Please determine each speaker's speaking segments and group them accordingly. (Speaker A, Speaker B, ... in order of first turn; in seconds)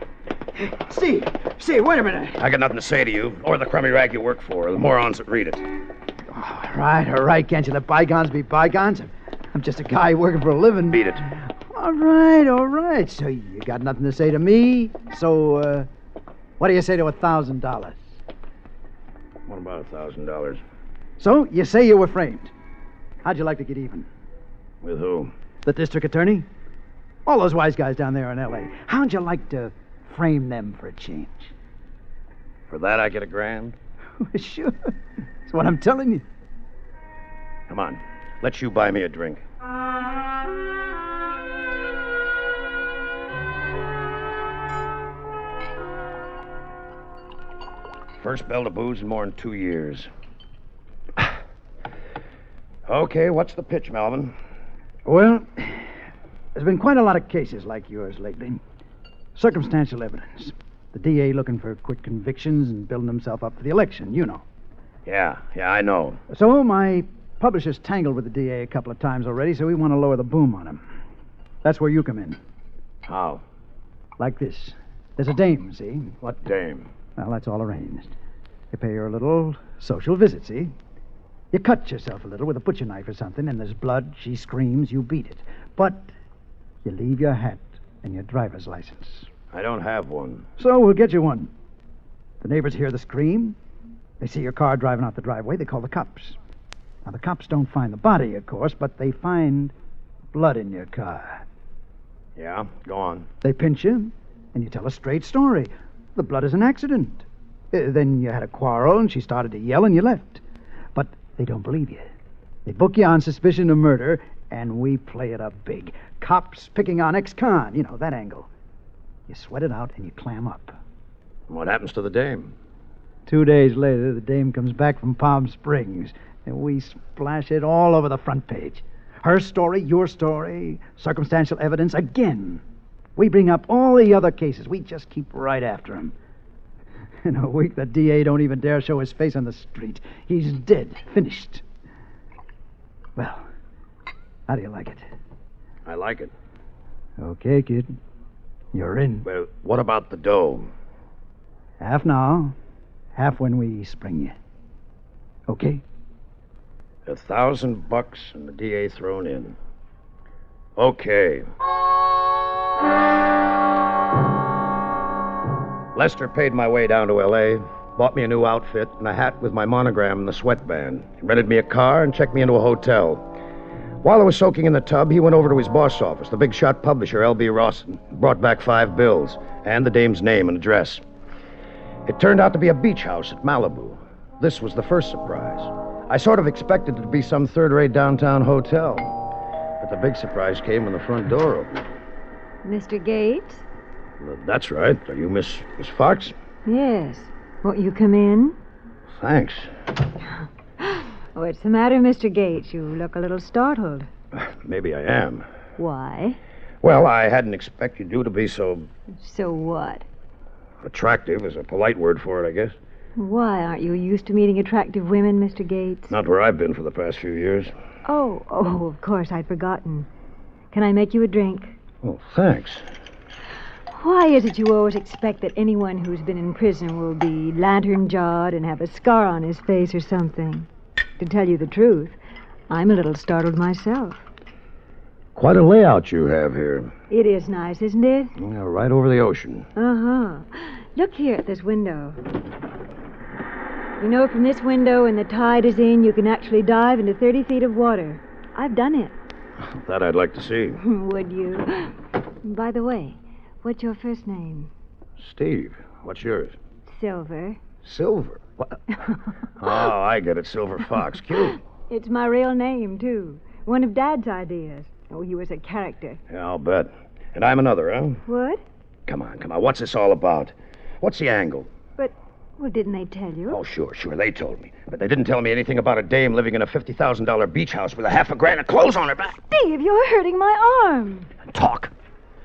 Speaker A: 0.6-2.4, 6.3-11.1, 11.7-15.9, 16.6-18.1, 21.2-22.5, 23.2-24.1, 25.6-26.5, 27.3-31.5, 34.2-35.0, 35.5-36.2, 55.1-55.9, 56.5-58.6, 59.4-64.4, 66.3-70.8, 71.6-72.4, 74.2-76.2, 77.2-78.1, 78.7-80.7, 81.5-86.1, 86.8-89.3, 90.6-91.5, 92.4-93.6, 94.2-96.4, 97.0-99.7, 100.3-101.4, 103.4-110.4, 110.9-112.1, 112.7-118.5, 119.3-120.8, 123.3-132.6, 133.2-136.1, 137.2-141.6, 143.2-143.4, 144.5-145.1, 147.2-147.9, 148.7-149.3, 151.8-152.6, 153.2-154.3, 155.5-155.8
Speaker B: 2.4-5.6, 10.9-11.2, 19.5-20.6, 24.8-25.3, 32.7-33.8, 37.7-39.4, 48.2-50.1, 52.9-54.3, 65.1-66.2, 73.1-73.4, 76.2-76.9, 89.5-90.5, 102.4-103.3, 121.5-122.5, 145.9-146.3, 149.2-150.7, 157.1-159.6, 160.8-161.4, 165.9-173.2, 174.0-181.0, 182.1-189.2, 189.8-191.8, 194.2-196.3, 199.2-199.7, 204.4-205.5, 206.8-208.9, 210.8-212.8, 216.1-217.7, 222.0-222.8, 235.4-236.9, 238.4-239.7, 249.7-250.8, 255.2-256.6, 257.8-258.8, 259.6-261.6, 266.3-268.2, 269.1-271.7, 273.5-279.4, 281.5-281.9
Speaker C: 192.7-193.7, 196.7-198.6, 200.8-204.1, 205.8-206.4, 209.2-210.1, 213.2-216.1, 218.1-220.1, 220.7-221.8, 223.9-230.7, 231.2-232.2, 232.7-234.2, 237.1-238.3, 239.8-242.2, 244.0-249.2, 250.8-254.7, 256.9-257.6, 261.9-266.2, 268.3-268.6, 272.0-273.6, 279.5-281.3